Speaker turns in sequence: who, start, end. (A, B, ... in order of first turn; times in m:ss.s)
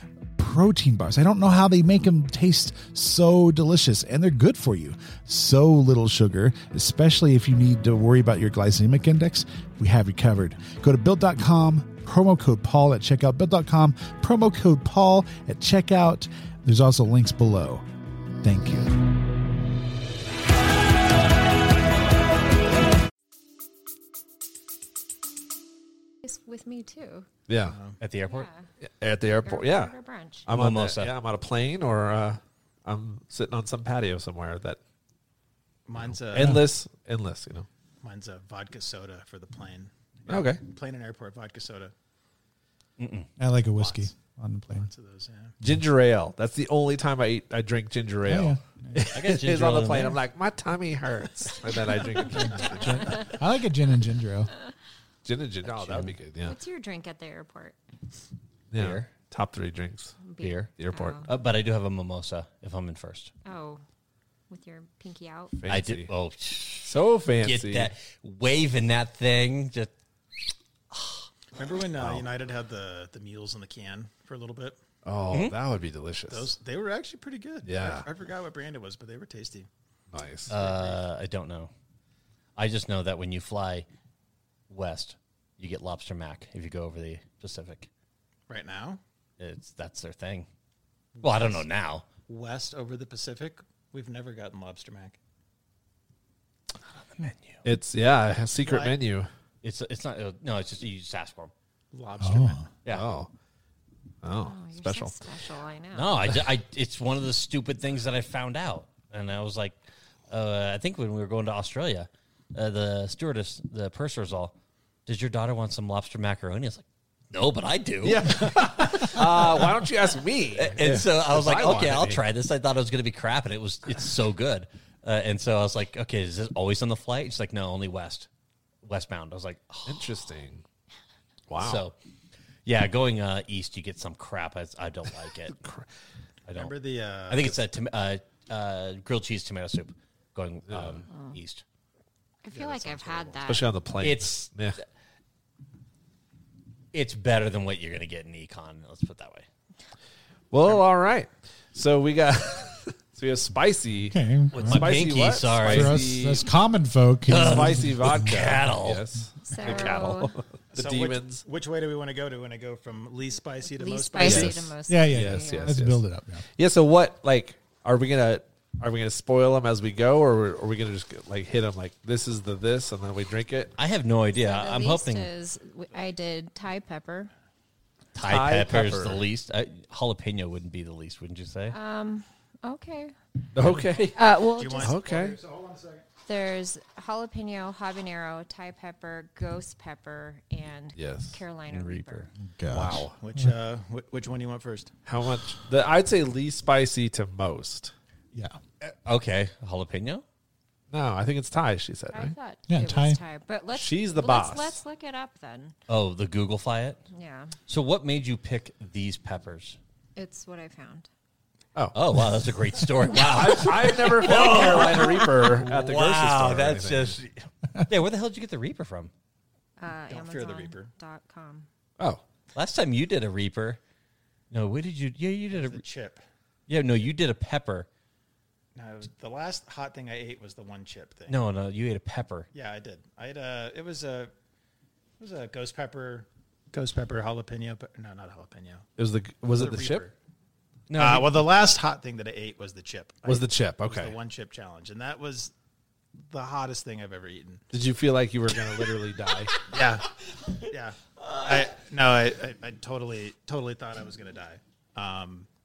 0:00.4-0:17.9 A
0:18.4-0:19.0 A
0:26.2-0:27.3 B
0:27.5-0:27.8 C
0:27.7-0:28.0 D
0:28.0-0:28.5 E
0:28.2-0:28.7 B
0:28.8-0:29.9 C
0:29.4-0:30.5 B
0:30.5-0:34.8 C
0:30.5-0:31.1 E
0:35.9-0:36.6 D
0:36.0-0:37.7 C
0:36.4-0:36.6 A
0:38.0-0:41.9 D
0:40.3-0:40.6 C
0:43.0-0:43.3 E
0:43.4-0:44.9 A
0:43.8-0:44.1 D
0:44.7-0:45.6 D
0:45.6-0:53.3 C
0:48.3-0:49.1 A
0:49.1-0:50.2 E
0:52.7-0:54.5 A
0:52.9-0:53.3 B
0:55.2-0:56.6 C
0:55.6-0:56.2 E
0:56.4-0:57.8 B
0:58.7-1:00.2 C
0:58.8-0:59.1 E
1:00.2-1:01.3 B
1:00.4-1:00.7 E
1:00.8-1:01.3 C
1:01.2-1:03.3 E
1:03.4-1:03.8 B
1:04.5-1:05.6 B
1:05.6-1:06.1 C
1:05.7-1:11.3 E
1:06.8-1:07.9 C
1:11.6-1:14.8 D
1:12.0-1:12.3 C
1:15.0-1:16.5 C
1:16.3-1:19.7 D
1:17.6-1:18.1 C
1:20.1-1:20.6 C
1:20.5-1:21.7 E
1:20.5-1:21.0 D
1:22.6-1:23.9 E
1:24.7-1:27.9 E
1:28.5-1:29.0 D
1:29.4-1:30.5 E
1:31.2-1:31.6 D
1:31.2-1:32.0 E
1:32.3-1:35.2 D
1:37.1-1:37.6 E
1:37.6-1:39.3 C
1:38.5-1:39.0 D
1:39.6-1:41.5 E
1:41.9-1:42.6 D
1:42.2-1:42.6 A
1:42.9-1:43.3 C
1:44.2-1:45.2 C
1:44.4-1:46.2 B
1:45.9-1:49.8 E
1:50.3-1:54.6 E
1:55.1-1:59.8 E
1:58.0-2:02.2 C
2:00.6-2:08.3 E
2:08.8-2:10.1 E
2:09.9-2:10.6 C
2:11.5-2:11.8 C
2:11.6-2:12.0 E
2:12.7-2:15.6 E
2:15.5-2:15.9 C
2:16.5-2:16.7 E
2:16.5-2:17.6 D
2:17.3-2:21.6 E
2:20.7-2:21.0 C
2:21.1-2:21.4 B
2:22.4-2:23.7 B
2:22.6-2:23.3 D
2:23.4-2:24.8 C
2:24.0-2:24.5 E
2:26.9-2:29.5 E
2:30.5-2:36.5 C
2:34.1-2:35.0 A
2:34.5-2:36.0 E
2:35.7-2:38.4 A
2:37.3-2:39.0 E
2:37.3-2:41.4 C
2:39.4-2:40.4 B
2:40.7-2:44.7 D
2:43.7-2:45.8 B
2:44.2-2:46.0 C
2:44.9-2:46.4 A
2:46.6-2:53.7 C
2:53.8-2:55.3 E
2:54.4-2:57.3 B
2:58.2-3:01.8 E
2:58.2-2:59.2 C
3:01.7-3:03.1 B
3:03.5-3:04.2 C
3:04.1-3:05.0 B
3:04.5-3:06.1 D
3:04.8-3:05.4 C
3:06.2-3:12.3 B
3:11.0-3:11.4 C
3:11.7-3:12.3 E
3:12.4-3:13.5 A
3:12.7-3:13.2 C
3:13.2-3:14.9 D
3:15.0-3:17.9 C
3:18.3-3:18.6 A
3:18.8-3:20.2 E
3:20.9-3:22.3 C
3:22.1-3:25.8 B
3:22.7-3:23.2 A
3:23.7-3:24.8 C
3:25.9-3:27.0 E
3:27.1-3:27.6 B
3:27.7-3:29.8 E
3:30.2-3:31.1 B
3:31.9-3:39.1 E
3:33.2-3:37.2 C
3:39.8-3:41.7 B
3:40.1-3:40.9 D
3:42.6-3:43.8 E
3:44.5-3:45.8 E
3:45.5-3:46.2 D
3:46.7-3:47.9 E
3:48.8-3:51.4 D
3:51.3-3:52.5 E
3:52.5-3:54.3 D
3:55.2-3:58.9 D
3:59.0-4:00.0 C
3:59.5-4:00.1 D
4:00.9-4:01.5 E
4:01.0-4:05.5 D
4:03.2-4:04.2 C
4:06.2-4:07.6 D
4:07.7-4:09.6 C
4:09.7-4:10.1 D
4:10.7-4:15.5 D
4:11.2-4:11.7 E